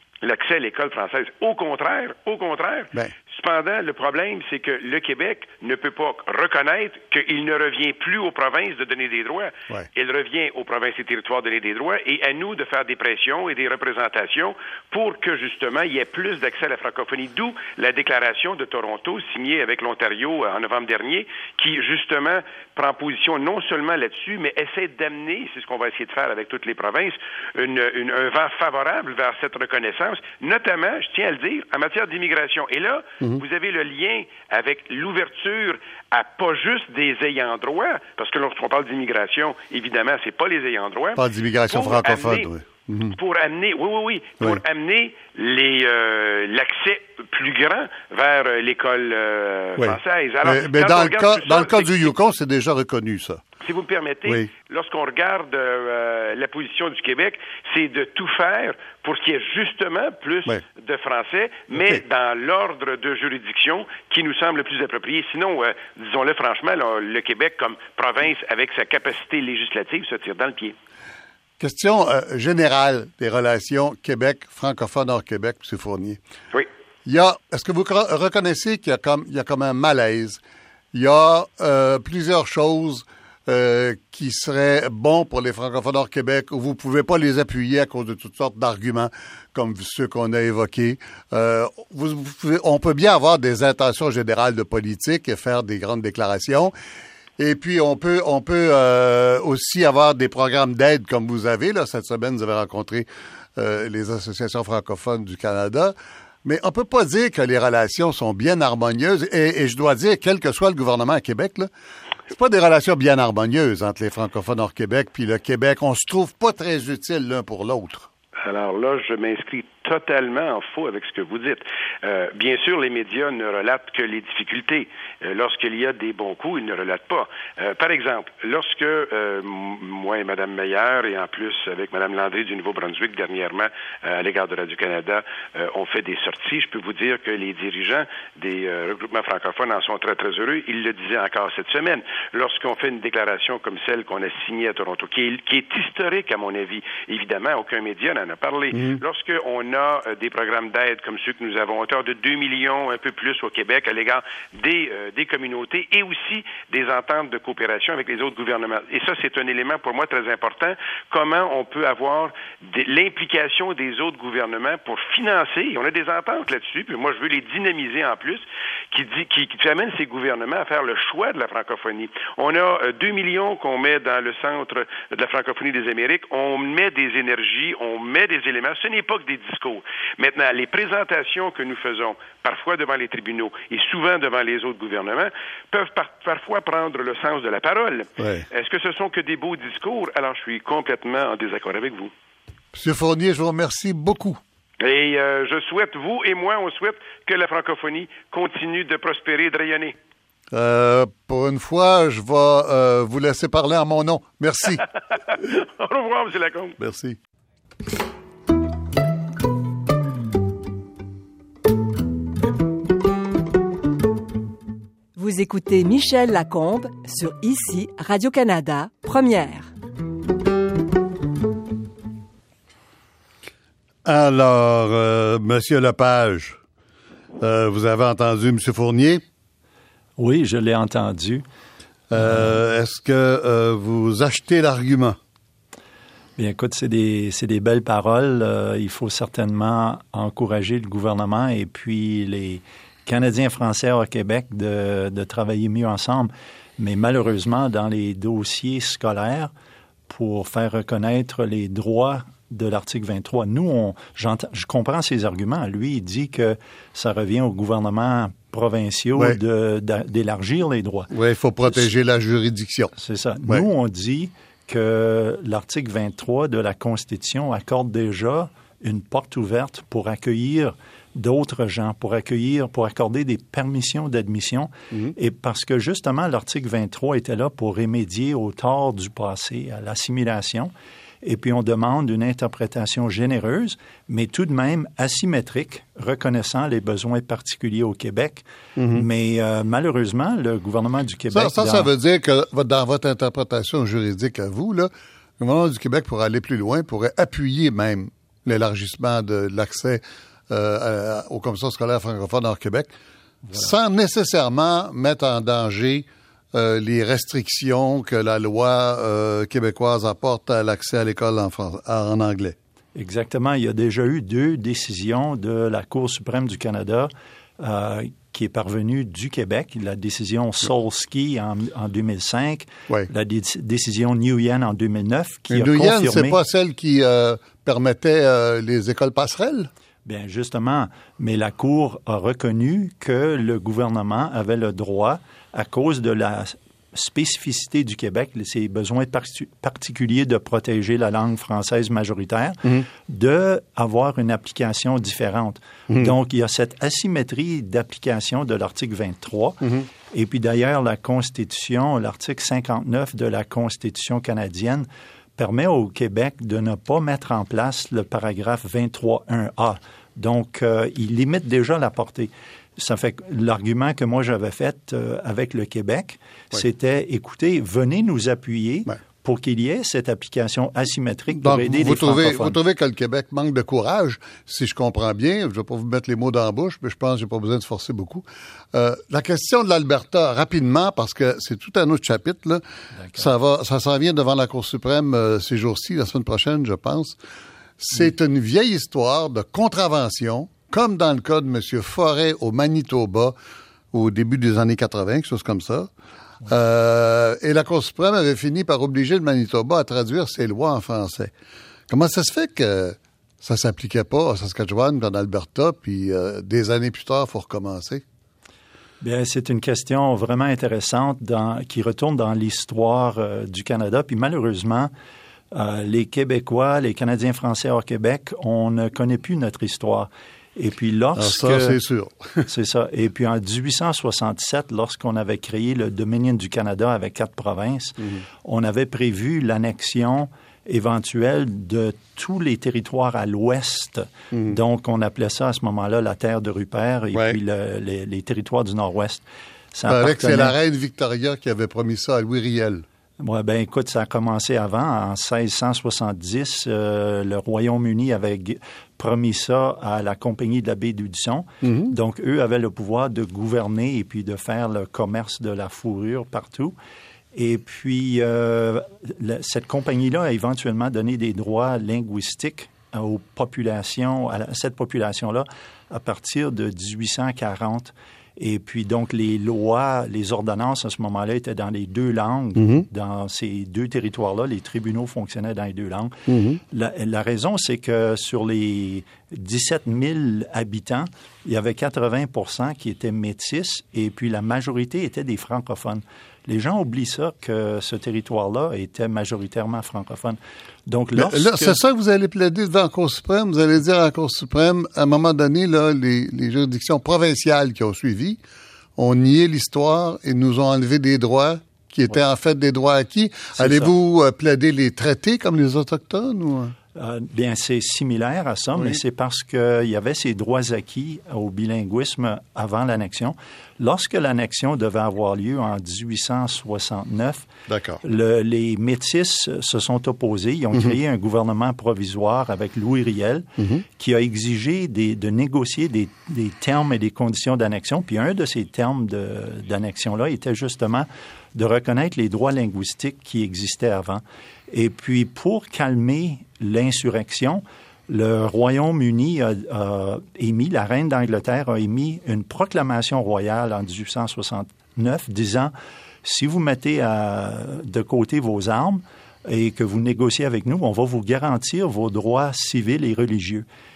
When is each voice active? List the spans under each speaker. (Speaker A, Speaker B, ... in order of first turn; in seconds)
Speaker A: 0.2-42.5, 43.1-52.1, 53.6-70.7, 118.4-192.1, 194.8-199.9, 205.3-206.8
Speaker B: 41.1-43.2, 49.8-53.4, 61.7-62.0, 71.6-76.2, 77.0-80.4, 80.9-96.7, 97.4-111.7, 112.3-118.1, 148.7-149.0, 188.2-188.4, 192.7-194.4, 200.5-204.8, 206.8-207.2, 224.0-226.6, 227.4-229.2, 232.1-235.2, 261.1-262.9, 288.8-289.1, 291.3-302.9, 303.5-312.6, 325.5-329.7, 349.6-349.9, 371.4-387.2, 387.8-393.3, 393.9-395.9, 396.4-401.3, 401.9-408.0, 421.1-422.5, 434.3-434.6, 439.9-442.8, 451.6-451.9, 472.6-472.8, 476.3-476.6, 491.1-498.4, 499.0-506.7, 517.7-518.0, 523.6-523.8
Speaker C: 215.2-219.7
Speaker D: 230.2-231.4, 232.2-232.4, 236.4-249.5, 250.1-261.1, 261.6-261.9, 263.0-280.7, 281.2-291.9, 303.5-303.7, 312.9-326.4, 330.0-372.6, 409.0-414.9, 415.5-421.8, 422.5-440.5, 443.2-456.7, 457.3-491.8, 503.6-503.9, 506.9-517.5, 518.0-545.7, 546.2-553.6